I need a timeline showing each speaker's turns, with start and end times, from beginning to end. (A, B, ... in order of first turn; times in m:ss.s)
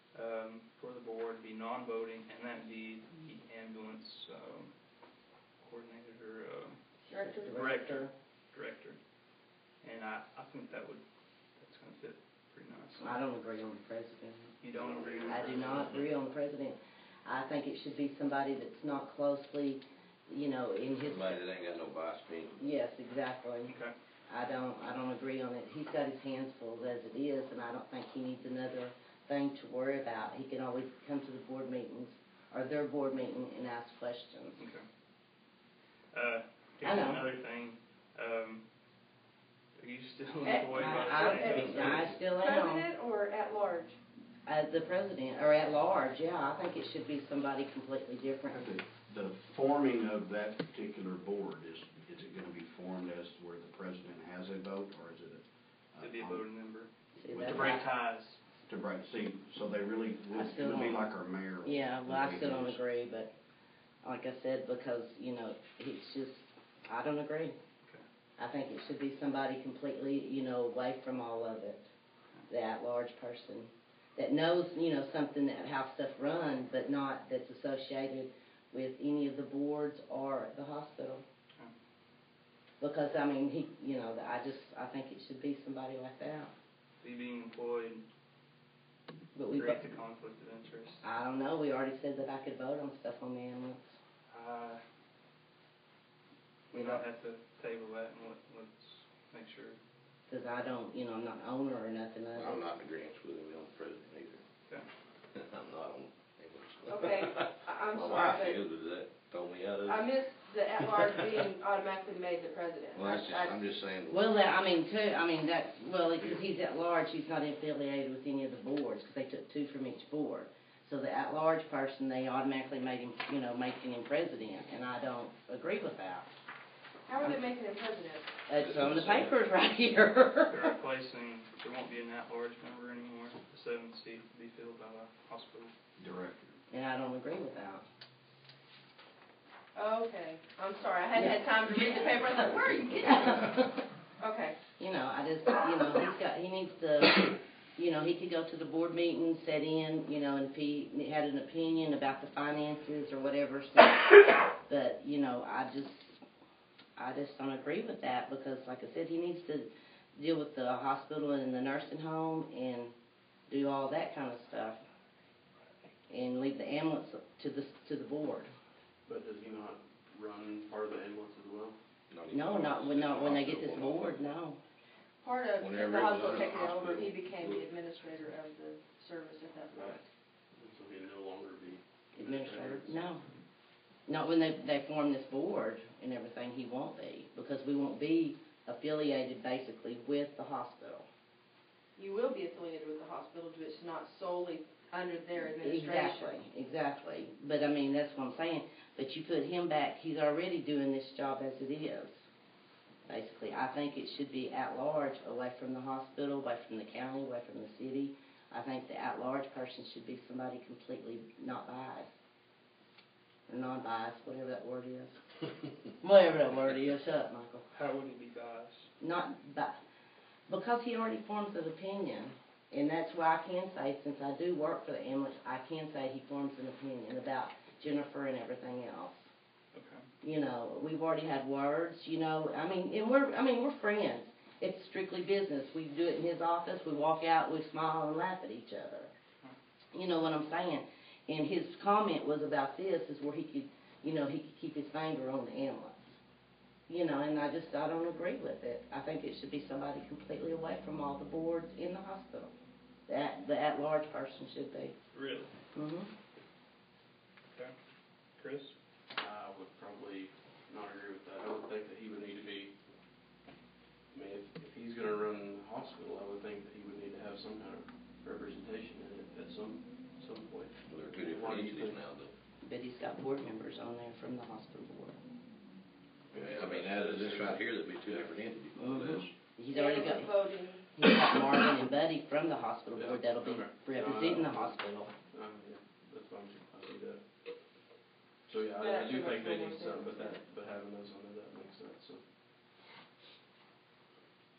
0:00.1-0:04.7 A
0:05.6-0:06.8 A
0:07.1-0:07.5 B
0:07.2-0:08.1 C
0:07.4-0:09.0 A
0:09.8-0:11.0 A
0:11.6-0:13.2 A
0:13.0-0:14.5 C
0:14.6-0:16.0 A
0:14.7-0:15.5 D
0:15.2-0:21.4 C
0:21.0-0:22.6 D
0:22.6-0:23.7 C
0:23.7-0:23.9 A
0:24.3-0:34.6 C
0:34.6-0:34.8 A
0:36.1-0:38.6 A
0:36.8-0:37.3 C
0:39.8-0:42.1 A
0:40.4-0:44.0 B
0:40.8-0:42.9 C
0:44.4-0:48.6 C
0:48.5-0:56.4 E
0:56.0-0:58.4 A
0:57.2-0:57.8 C
0:57.3-0:57.7 E
0:58.7-1:02.8 E
1:00.3-1:01.1 C
1:01.6-1:03.3 C
1:04.0-1:07.6 C
1:08.4-1:11.8 C
1:12.5-1:21.2 C
1:22.8-1:26.5 C
1:27.0-1:28.0 A
1:29.3-1:29.8 C
1:29.5-1:31.0 A
1:31.0-1:33.9 C
1:34.3-1:34.8 A
1:36.7-1:39.8 A
1:36.7-1:37.0 C
1:40.3-1:42.6 C
1:42.3-1:44.4 D
1:45.3-1:50.0 D
1:46.8-1:48.6 B
1:49.8-1:53.6 B
1:51.0-1:51.3 D
1:52.9-1:54.2 D
1:54.1-2:06.3 C
2:07.0-2:08.4 B
2:08.5-2:10.7 C
2:08.6-2:09.3 D
2:10.5-2:15.7 A
2:16.0-2:16.6 E
2:16.7-2:17.8 C
2:19.7-2:23.5 B
2:21.1-2:23.8 C
2:24.2-2:24.6 B
2:24.8-2:36.2 C
2:37.0-2:42.9 C
2:43.5-2:44.8 C
2:46.1-2:48.5 C
2:49.0-2:51.8 F
2:52.1-2:54.3 D
2:52.3-2:54.6 C
2:55.2-3:00.0 B
2:55.6-2:57.6 D
2:59.7-3:00.0 F
3:00.5-3:03.2 F
3:02.2-3:03.2 C
3:04.1-3:11.0 C
3:12.0-3:16.3 B
3:15.6-3:22.2 C
3:23.1-3:32.1 C
3:33.5-3:35.2 C
3:36.0-3:37.7 C
3:37.7-3:38.9 A
3:39.0-3:39.7 C
3:40.5-3:49.3 C
3:49.7-3:50.0 A
3:50.2-3:59.1 C
3:59.9-4:06.2 C
4:06.9-4:12.5 C
4:13.1-4:14.9 C
4:15.1-4:15.5 A
4:15.7-4:16.1 C
4:18.4-4:18.7 A
4:19.2-4:22.7 F
4:24.1-4:32.0 F
4:30.9-4:32.3 D
4:32.6-4:35.2 C
4:36.3-4:38.3 F
4:36.4-4:39.3 D
4:38.7-4:40.4 C
4:39.7-4:40.9 B
4:40.9-4:45.1 C
4:42.9-4:44.7 F
4:45.3-4:47.2 F
4:48.4-4:52.2 F
4:48.8-4:50.4 B